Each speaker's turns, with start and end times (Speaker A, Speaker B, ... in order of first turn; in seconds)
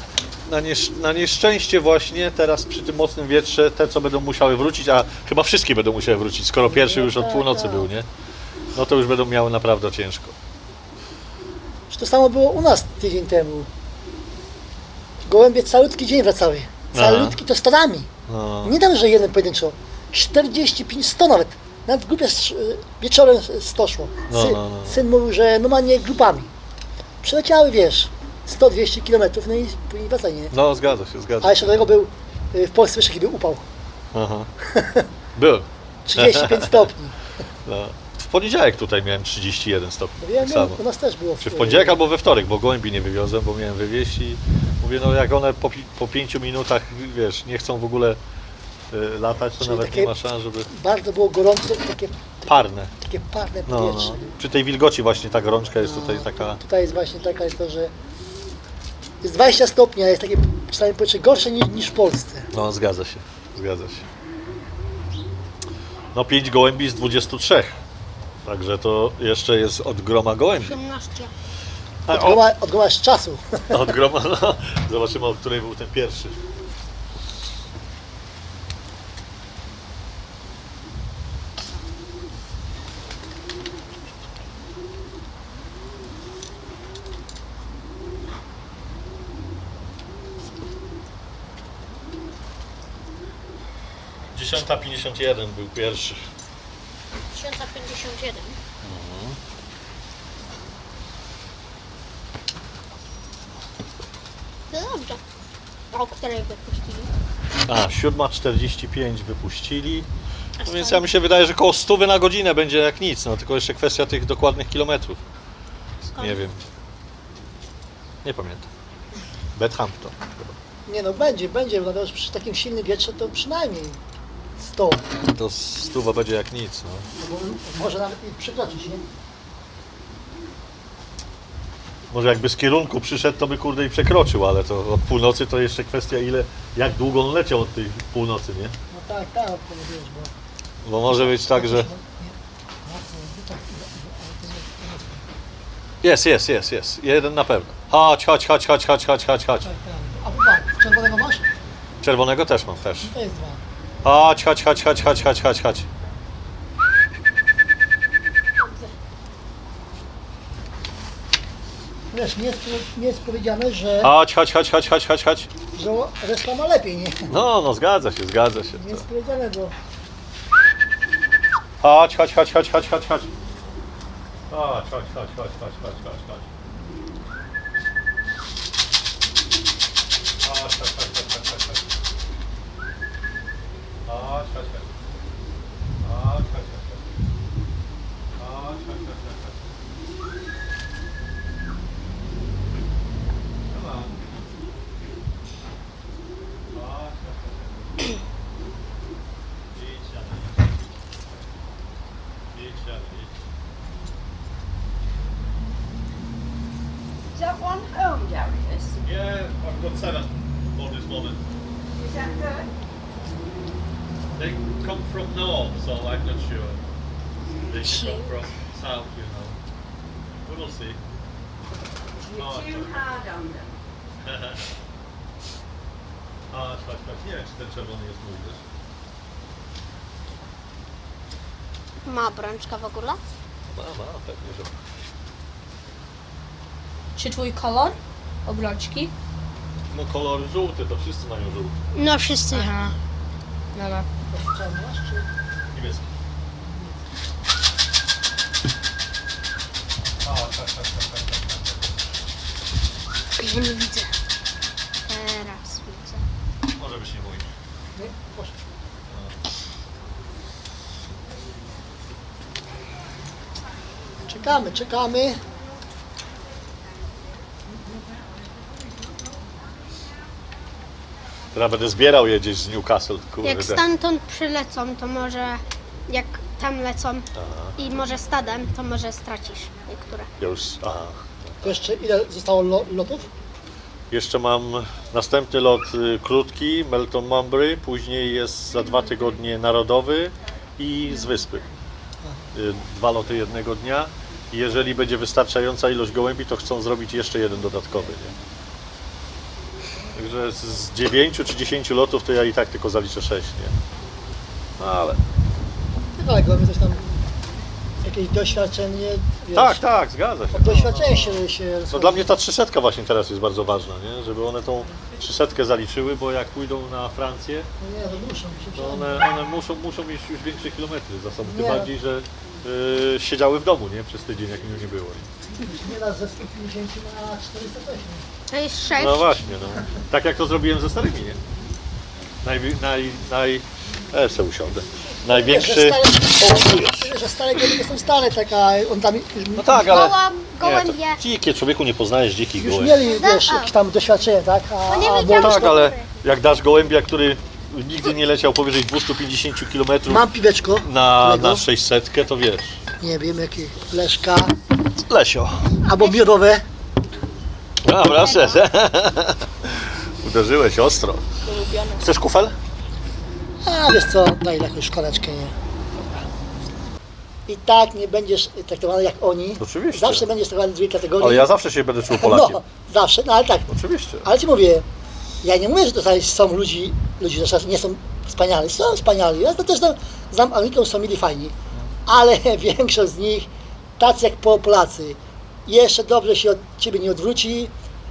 Speaker A: 0.5-8.1, 8.7-10.3, 16.9-17.4, 18.3-18.8, 24.3-25.0, 30.5-31.8, 34.1-34.5, 35.4-36.9, 37.6-40.8, 41.4-48.2, 48.9-50.7, 52.5-52.9, 53.7-56.6, 62.5-64.1, 66.1-67.8, 68.4-70.8, 72.1-72.4, 73.7-76.4, 94.3-96.2, 98.8-99.4, 107.7-110.1, 110.6-115.2, 116.2-116.6, 118.2-118.7, 119.6-120.5, 125.3-127.1, 132.1-138.8, 140.8-141.9, 146.0-149.7, 152.0-153.1, 154.0-155.9, 164.0-165.5, 167.3-169.1, 171.8-173.3, 174.5-176.5, 180.4-181.8, 184.1-184.9, 186.0-187.1, 188.4-189.7, 193.7-194.2, 196.7-198.1, 199.7-201.4, 202.5-203.3, 209.0-211.4, 214.3-216.8, 217.7-219.6, 220.4-221.0, 222.3-223.2, 224.2-224.7, 226.5-228.6, 233.7-234.7, 239.9-241.8, 245.7-246.1, 250.2-251.9, 256.8-257.5, 259.1-259.5, 271.5-273.8, 277.4-277.8, 280.4-281.7, 284.1-291.7, 292.5-298.4, 300.1-303.8, 304.8-305.2, 309.5-317.7, 318.8-325.3, 329.0-331.4, 332.4-337.1, 339.6-343.0, 345.3-350.2, 350.8-352.8, 355.1-355.8, 357.8-361.3, 362.0-362.6, 369.6-370.3, 371.2-372.6, 373.7-374.3
Speaker B: 6.6-7.9, 11.9-13.7, 15.2-18.1, 18.6-26.5, 27.2-30.5, 31.4-33.7, 34.6-35.1, 36.1-37.2, 40.2-42.0, 49.6-54.3, 55.8-57.9, 59.2-62.5, 72.1-73.9, 120.9-124.0, 124.6-125.1, 127.2-129.1, 138.9-140.3, 141.1-145.3, 149.6-151.4, 153.0-153.6, 162.1-164.1, 165.7-167.3, 168.8-169.8, 244.3-245.3, 257.9-258.6, 264.3-265.4, 281.6-283.3, 306.2-307.0, 308.0-309.8, 310.5-312.4, 317.8-319.2, 321.4-321.9, 325.6-328.3, 335.2-340.1, 342.6-345.8, 350.1-351.7, 353.0-354.5, 355.9-356.7, 363.6-365.6, 367.5-371.5, 372.1-373.7, 374.2-374.9, 375.4-381.6, 382.1-387.7
Speaker C: 70.6-71.3, 97.3-98.6, 104.7-105.2, 105.9-107.1, 110.6-111.0, 116.0-116.5, 158.6-158.9, 232.1-233.2, 241.9-242.8, 253.4-254.1, 255.1-256.2, 273.4-280.3, 328.5-329.3, 339.8-341.2, 343.0-343.8, 344.9-346.1, 355.9-356.3, 358.0-358.7
Speaker D: 207.4-208.9, 212.0-212.7, 222.2-223.7
Speaker E: 237.2-239.1, 242.5-242.9, 243.8-244.1, 361.4-362.1